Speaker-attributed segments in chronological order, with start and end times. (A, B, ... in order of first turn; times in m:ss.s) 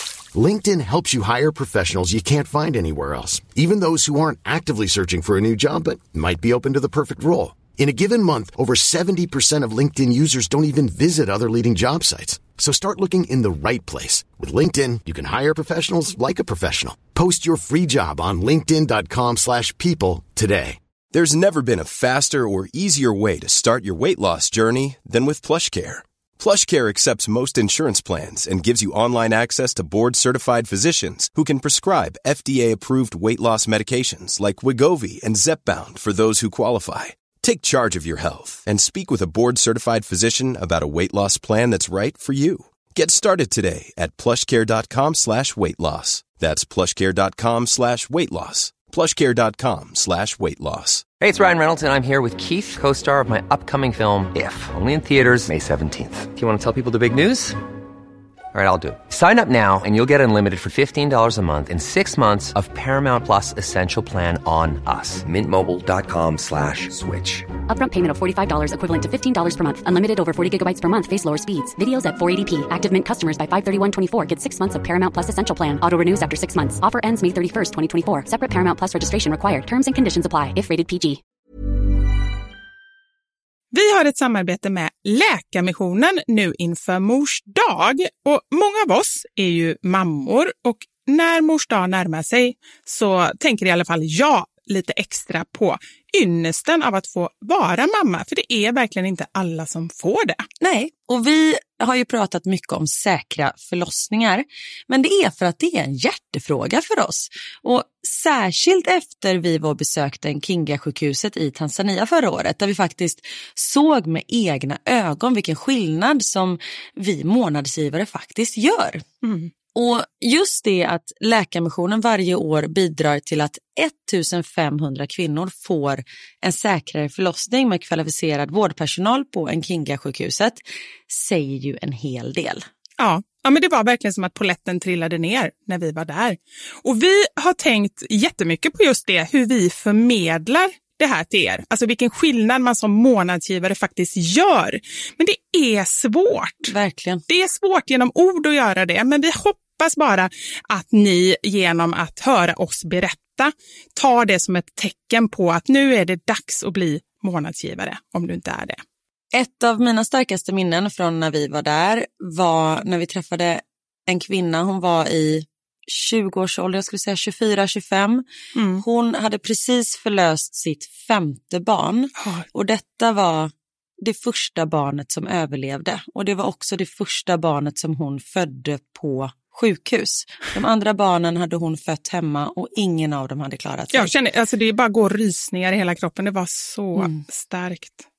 0:00.3-0:20.8 A
0:21.1-0:51.1 B
0:51.2-0:57.6 C
0:58.5-1:07.5 C
1:07.7-1:21.2 D
1:23.7-1:40.5 E
1:40.6-2:12.7 F
2:13.0-2:26.7 E
2:26.7-2:27.2 F
2:27.3-2:38.8 E
2:39.3-2:48.3 F
2:48.6-2:48.8 E
2:48.8-3:04.1 F
3:03.9-3:08.0 E